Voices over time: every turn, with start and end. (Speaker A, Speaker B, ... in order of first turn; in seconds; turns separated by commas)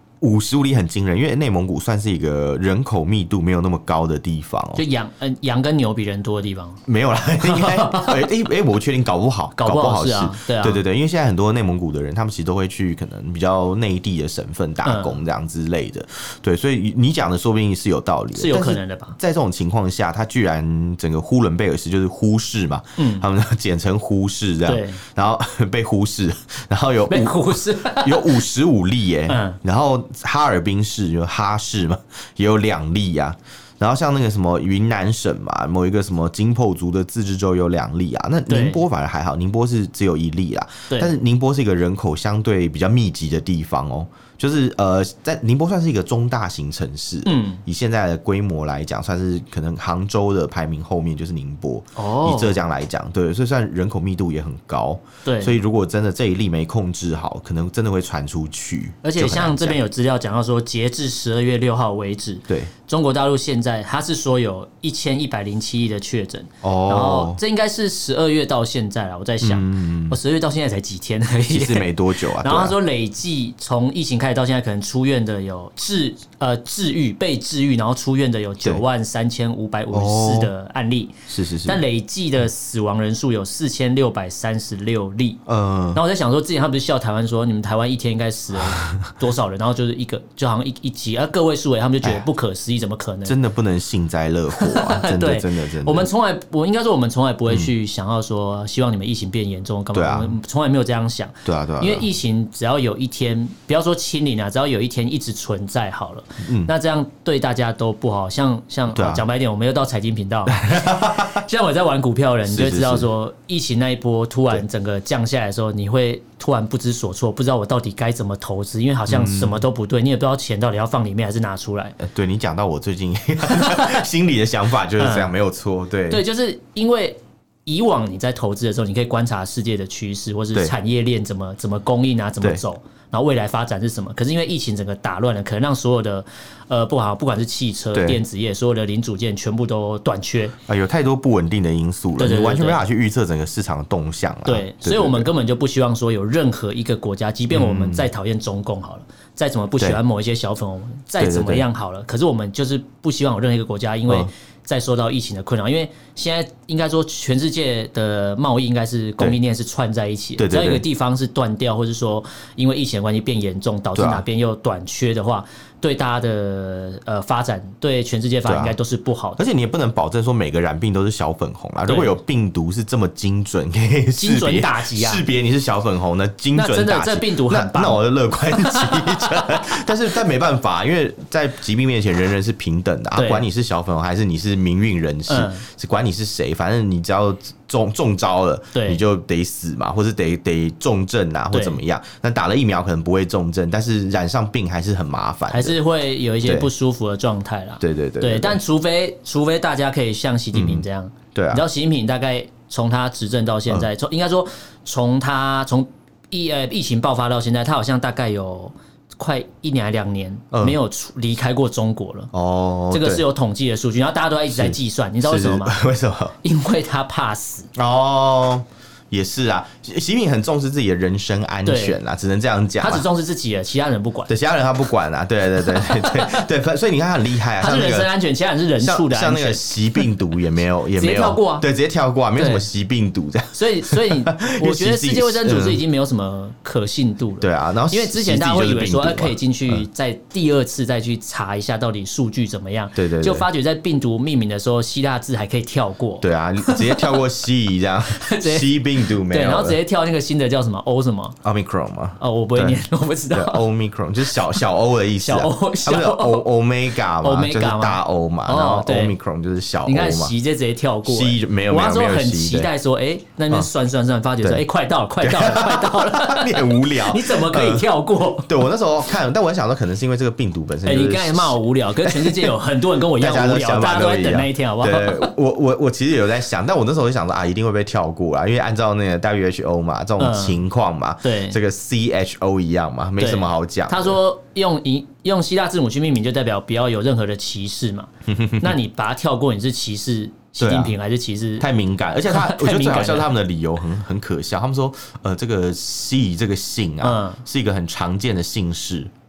Speaker A: 0.2-4.8, Speaker B: 4.8-6.8, Speaker A: 6.9-59.8, Speaker B: 7.4-8.2, Speaker B: 9.6-10.8, Speaker B: 14.8-15.2, Speaker B: 18.3-19.1, Speaker B: 23.0-23.2, Speaker B: 24.6-25.0, Speaker B: 27.1-28.4, Speaker B: 29.3-29.6, Speaker B: 38.5-38.8, Speaker B: 47.2-47.6, Speaker B: 52.0-52.6, Speaker B: 55.2-55.6, Speaker B: 59.0-85.4, Speaker A: 66.6-67.4, Speaker A: 69.4-70.2, Speaker A: 71.5-72.8, Speaker A: 79.9-80.5, Speaker A: 81.3-81.8, Speaker A: 85.5-86.0, Speaker B: 85.9-93.3, Speaker A: 93.2-96.1, Speaker B: 94.6-122.0, Speaker A: 99.9-100.3, Speaker A: 101.4-102.1, Speaker A: 106.4-106.7, Speaker A: 108.9-109.2, Speaker A: 110.5-111.4, Speaker A: 112.5-113.1, Speaker A: 119.1-119.6, Speaker A: 122.0-126.2, Speaker B: 123.5-124.0, Speaker B: 125.0-125.3, Speaker B: 126.1-140.6, Speaker A: 137.9-138.2, Speaker A: 140.7-145.3, Speaker B: 142.2-142.8, Speaker B: 144.4-169.4, Speaker A: 147.5-148.1, Speaker A: 151.2-151.6, Speaker A: 160.4-160.8, Speaker A: 163.9-164.2, Speaker A: 168.4-168.8, Speaker A: 169.4-195.8, Speaker B: 171.9-172.1, Speaker B: 174.2-175.2, Speaker B: 176.5-178.0, Speaker B: 178.6-179.7, Speaker B: 183.2-183.4, Speaker B: 185.3-185.6, Speaker B: 188.7-189.0, Speaker B: 191.5-191.8, Speaker B: 195.5-212.3, Speaker A: 196.4-196.7, Speaker A: 197.8-198.6, Speaker A: 200.5-201.6, Speaker A: 210.5-210.8, Speaker A: 212.3-213.2, Speaker B: 212.9-215.8, Speaker A: 214.5-216.4, Speaker B: 216.4-217.7, Speaker A: 217.8-223.0, Speaker B: 221.7-222.0, Speaker B: 222.8-224.3, Speaker A: 224.3-228.1, Speaker B: 225.7-226.5, Speaker B: 227.6-230.1, Speaker A: 228.8-235.8, Speaker B: 231.0-231.6, Speaker B: 232.4-232.7, Speaker B: 233.5-247.2, Speaker A: 237.4-239.8, Speaker A: 242.9-243.5, Speaker A: 246.2-249.8, Speaker B: 248.1-251.4, Speaker A: 251.4-252.8, Speaker B: 252.2-253.6, Speaker A: 253.3-260.3, Speaker B: 255.2-256.5, Speaker B: 257.2-259.1, Speaker B: 259.9-268.6, Speaker A: 261.0-262.7, Speaker A: 265.2-267.9, Speaker A: 268.4-272.5, Speaker B: 270.9-275.3, Speaker A: 273.1-284.2, Speaker B: 280.2-280.6, Speaker B: 281.2-281.6, Speaker B: 283.2-291.6, Speaker A: 288.3-288.7, Speaker A: 290.6-290.9, Speaker A: 291.6-299.1, Speaker B: 292.3-293.3, Speaker B: 297.0-297.4